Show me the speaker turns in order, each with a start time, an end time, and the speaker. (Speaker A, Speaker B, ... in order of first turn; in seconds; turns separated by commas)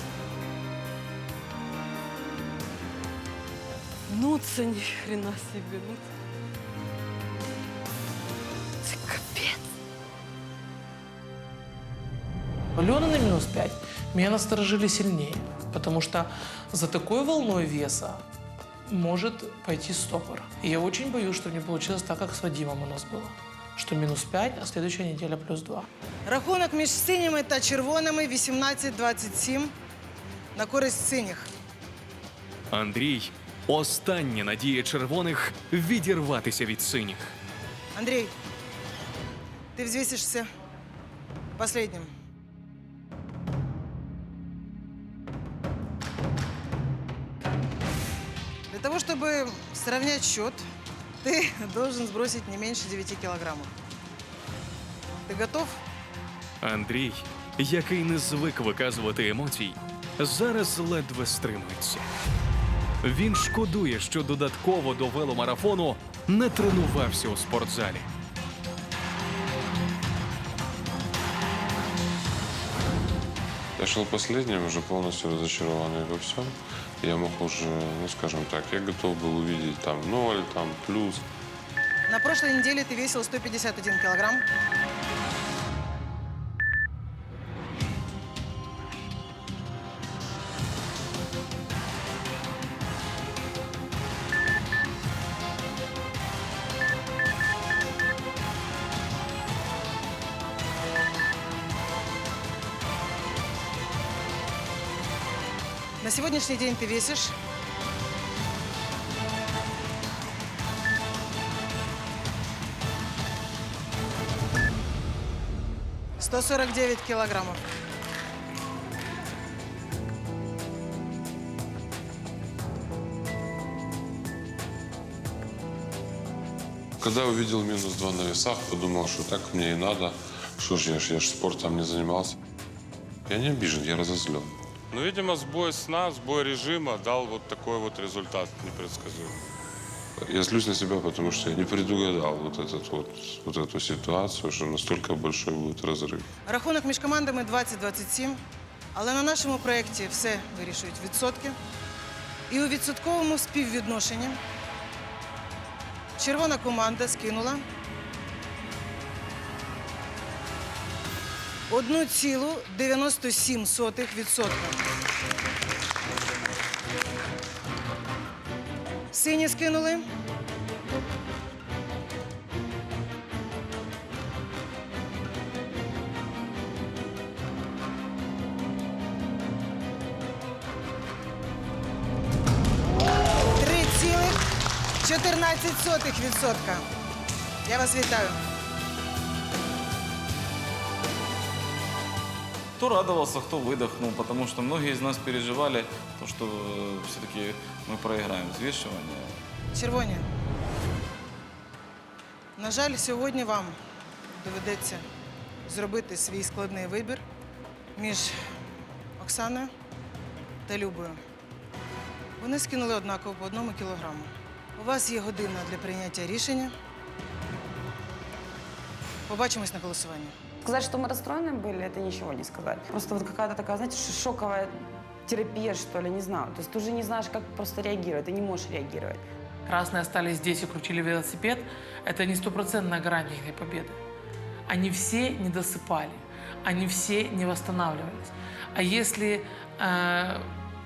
Speaker A: 4.1-6.0, Speaker A: 8.8-9.7, Speaker B: 12.8-18.2, Speaker B: 18.9-25.9, Speaker C: 26.2-29.7, Speaker C: 30.5-31.5, Speaker D: 32.7-37.3, Speaker C: 38.0-38.3, Speaker C: 39.8-40.5, Speaker C: 41.6-42.1, Speaker C: 48.7-50.6, Speaker C: 51.2-53.7, Speaker C: 55.2-55.8, Speaker D: 56.6-62.1, Speaker D: 63.0-68.1, Speaker E: 73.8-81.2, Speaker C: 82.1-84.4, Speaker C: 106.0-107.3, Speaker C: 116.2-117.6, Speaker E: 127.0-132.3, Speaker E: 133.2-134.6, Speaker F: 134.9-139.3, Speaker E: 140.2-146.3, Speaker C: 146.4-148.4, Speaker C: 148.9-151.6, Speaker C: 152.5-154.4, Speaker C: 156.2-157.6, Speaker C: 161.7-164.8, Speaker C: 169.1-170.0, Speaker C: 183.6-184.4, Speaker C: 185.0-186.8, Speaker C: 187.7-188.4, Speaker G: 192.8-199.4, Speaker C: 199.7-200.2, Speaker C: 202.6-203.8, Speaker C: 204.4-205.0, Speaker C: 205.7-207.2, Speaker C: 207.9-208.4, Speaker C: 209.2-209.7, Speaker C: 210.7-211.2, Speaker C: 212.4-216.7, Speaker C: 219.3-220.3, Speaker H: 220.6-224.7, Speaker H: 225.2-229.2, Speaker B: 229.7-234.0, Speaker B: 234.7-240.5